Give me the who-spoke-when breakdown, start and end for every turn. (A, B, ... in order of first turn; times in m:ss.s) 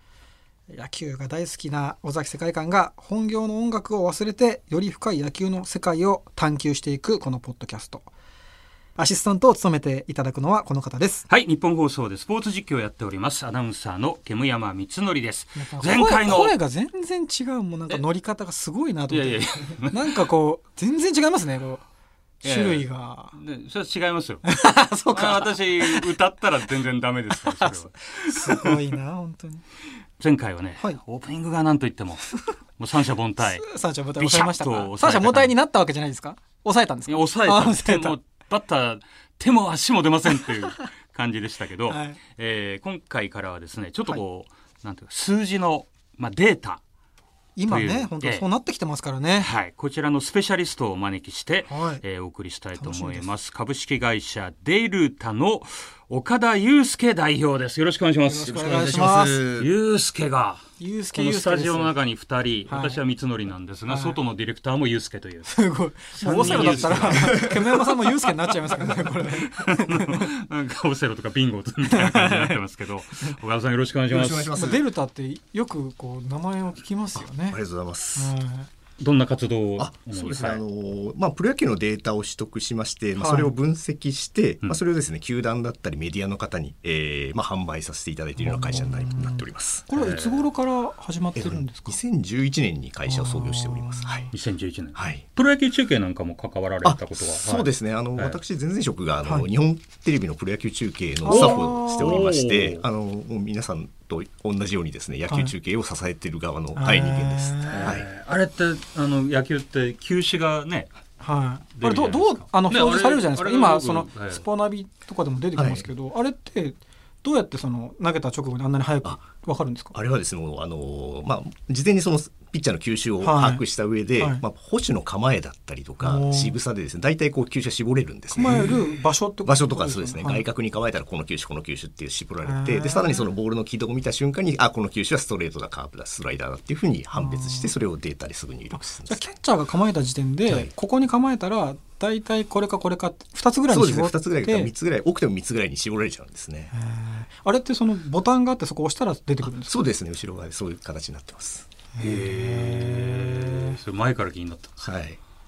0:00.7-0:08.1 A
0:09.0-0:11.2 A
0:11.3-0:16.6 B
0:15.5-0:21.8 A
0:19.1-0:20.2 B
0:22.4-0:23.4 A
0:22.4-0:28.8 B
0:24.4-0:26.2 A
0:27.3-0:29.6 A
0:30.2-0:33.6 B
0:33.4-0:38.2 A
0:34.2-0:35.5 B
0:37.1-0:46.8 B
0:41.9-0:42.2 A
0:47.6-0:49.5 A
0:47.7-0:48.4 B
0:49.4-1:00.6 B
0:51.7-0:52.0 A
0:52.7-0:53.3 A
0:58.2-0:59.4 A
0:58.6-0:59.7 C
1:00.8-1:01.9 A
1:01.1-1:05.6 B
1:02.6-1:03.0 A
1:03.9-1:04.2 A
1:05.4-1:10.3 A
1:06.1-1:14.6 B
1:06.2-1:07.8 C
1:08.8-1:09.2 C
1:11.8-1:12.6 A
1:14.1-1:14.8 C
1:14.5-1:17.6 A
1:17.2-1:18.3 C
1:18.1-1:18.7 A
1:19.0-1:20.6 B
1:19.8-1:29.9 C
1:23.2-1:23.5 A
1:28.4-1:32.0 A
1:29.9-1:30.5 B
1:31.3-1:34.3 C
1:33.0-1:34.3 A
1:34.3-1:38.4 B
1:34.9-1:35.2 C
1:36.8-1:48.1 C
1:41.2-1:42.2 A
1:41.3-1:42.8 B
1:45.3-1:45.5 A
1:46.7-1:48.0 A
1:47.7-1:50.9 B
1:51.2-2:00.0 A
1:51.7-1:54.4 B
1:55.5-1:55.9 C
1:59.9-2:08.9 C
2:03.2-2:03.6 A
2:04.2-2:04.4 A
2:06.0-2:06.6 A
2:08.3-2:10.4 A
2:09.4-2:19.3 C
2:12.4-2:13.3 A
2:17.1-2:17.7 A
2:18.7-2:24.7 A
2:20.4-2:20.7 C
2:23.7-2:26.7 C
2:26.7-2:29.8 A
2:29.4-2:31.7 C
2:31.9-2:33.8 A
2:32.0-2:34.9 B
2:34.8-2:35.2 C